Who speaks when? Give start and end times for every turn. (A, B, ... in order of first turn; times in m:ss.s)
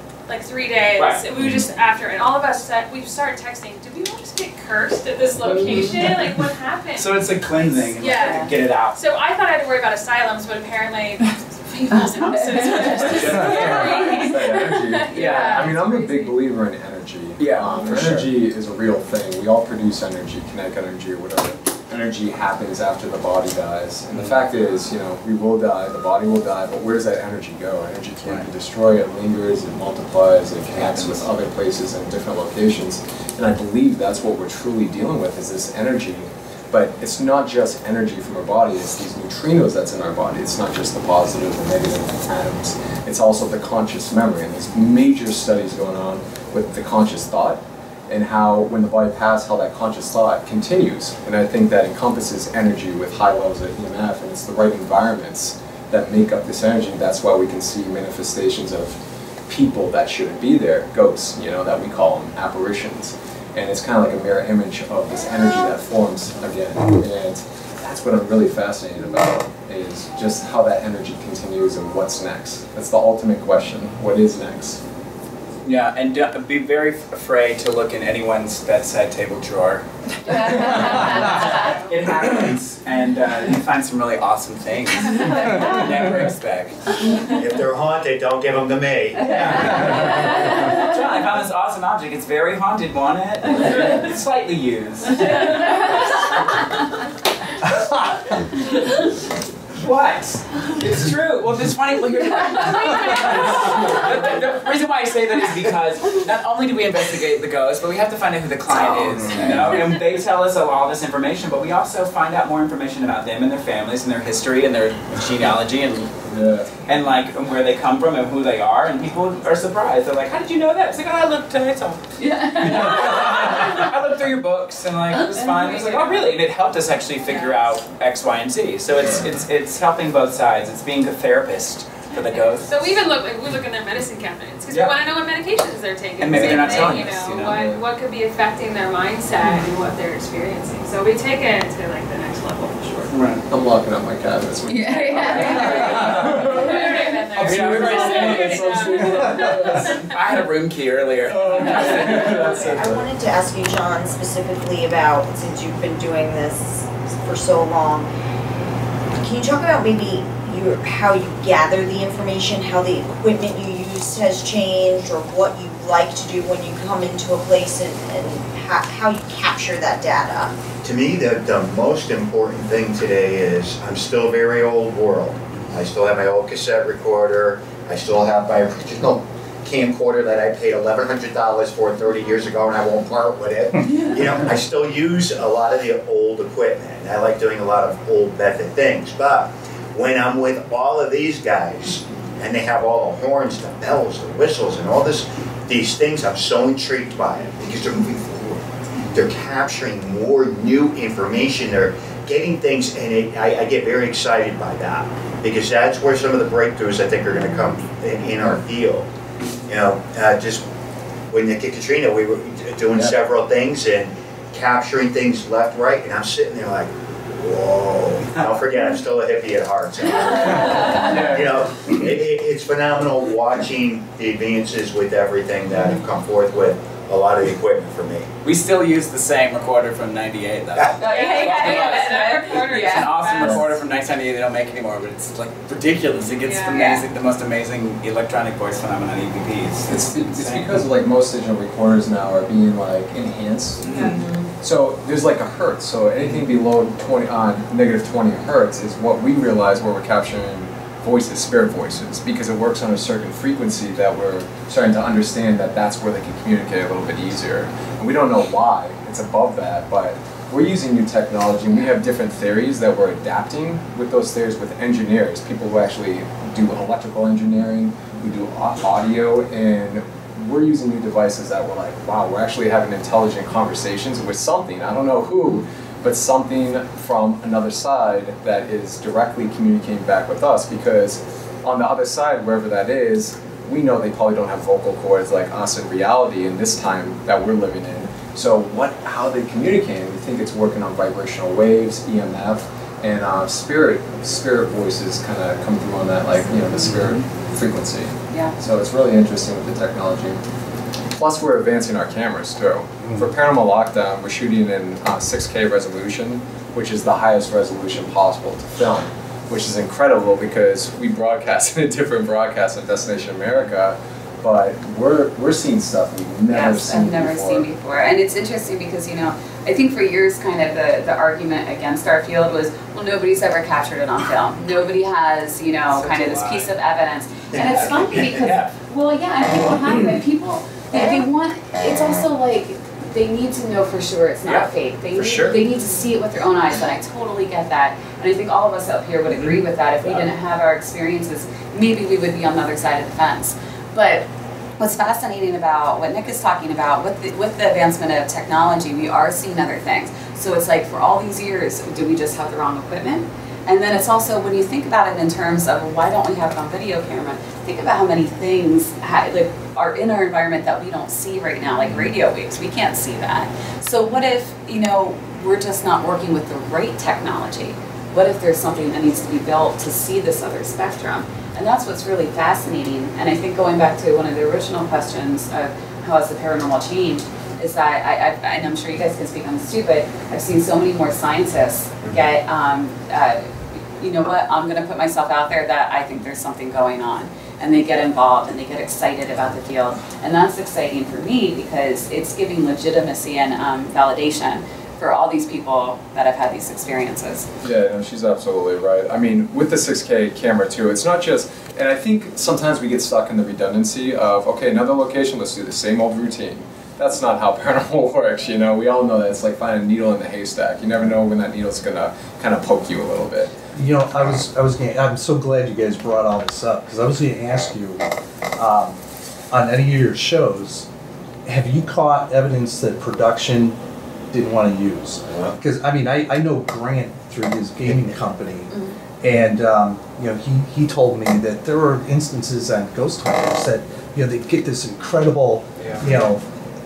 0:00.3-0:16.3 A
0:01.0-0:01.2 B
0:05.5-0:06.0 C
0:05.5-0:06.1 B
0:07.0-0:09.0 B
0:11.9-0:13.4 C
0:12.7-0:14.2 B
0:13.3-1:14.8 D
0:15.1-0:15.7 B
0:17.4-0:17.7 B
0:17.6-0:18.3 E
1:15.6-1:26.9 B
1:20.5-1:21.0 C
1:21.0-1:21.8 A
1:27.3-1:30.0 F
1:29.2-1:36.4 B
1:37.7-1:38.2 E
1:39.8-1:56.2 B
1:43.1-1:43.7 A
1:56.3-1:56.7 D
1:56.8-2:13.0 B
2:02.2-2:03.6 C
2:05.2-2:06.1 C
2:07.3-2:07.6 A
2:12.2-2:23.1 A
2:16.2-2:17.8 B
2:16.3-2:17.8 D
2:23.1-2:23.4 B
2:23.5-2:30.1 D
2:24.7-2:26.3 C
2:25.2-2:30.1 A
2:26.0-2:26.7 B
2:27.4-2:28.9 B
2:29.1-2:29.6 E
2:29.4-2:32.8 B
2:31.3-2:33.1 D
2:32.6-2:38.1 G
2:39.2-2:50.5 G
2:50.8-3:29.1 F
3:29.7-3:30.7 F
3:31.3-3:48.3 F
3:40.9-3:41.6 D
3:48.4-4:00.8 B
3:51.0-3:53.2 C
3:51.0-3:53.7 A
3:56.4-3:56.8 A
3:56.7-3:57.0 C
3:59.9-5:00.4 D
4:03.8-4:04.2 B
4:04.0-4:04.4 C
5:01.2-5:17.7 D
5:16.5-5:44.3 C
5:25.9-5:26.7 B
5:27.5-5:28.7 B
5:27.6-5:28.3 F
5:34.4-5:35.6 B
5:39.3-5:40.3 B
5:44.8-6:37.5 C
6:37.6-6:53.6 D
6:53.8-6:59.0 E
6:59.5-7:00.9 E
7:01.5-7:03.8 E
7:04.3-7:16.4 E
7:05.3-7:05.6 F
7:08.7-7:09.0 C
7:15.8-7:16.0 B